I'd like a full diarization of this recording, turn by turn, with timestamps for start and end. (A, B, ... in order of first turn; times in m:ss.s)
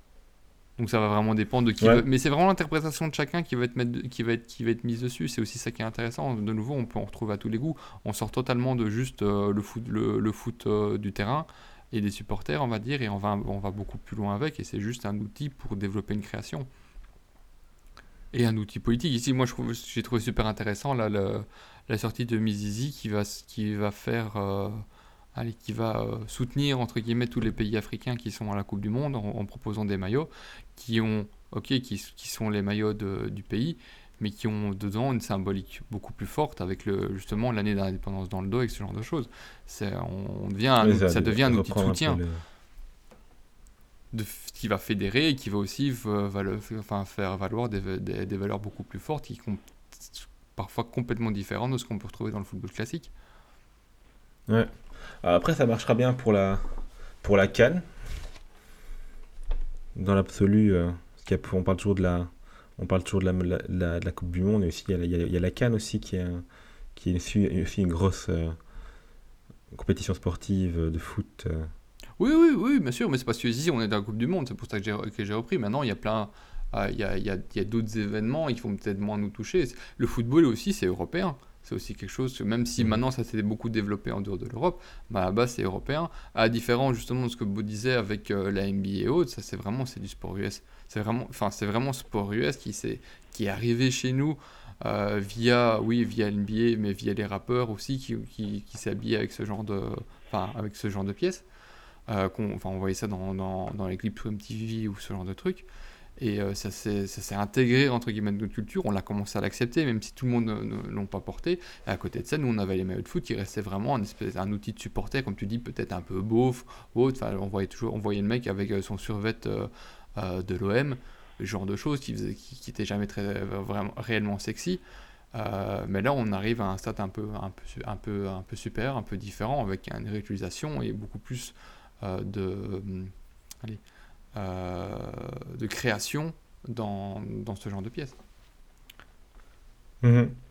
0:00.8-0:16.7 A
0:01.8-0:02.0 B
0:18.3-0:24.8 A
0:25.3-0:42.2 A
0:40.8-0:42.4 B
0:44.1-0:53.1 A
0:54.5-0:56.6 B
0:57.2-0:57.8 B
1:00.0-1:06.4 B
1:06.9-1:08.6 B
1:09.7-1:11.7 B
1:12.2-1:41.4 A
1:42.1-1:45.6 A
1:46.2-2:04.8 A
2:05.3-2:13.8 A
2:14.3-2:18.2 A
2:20.0-2:20.4 B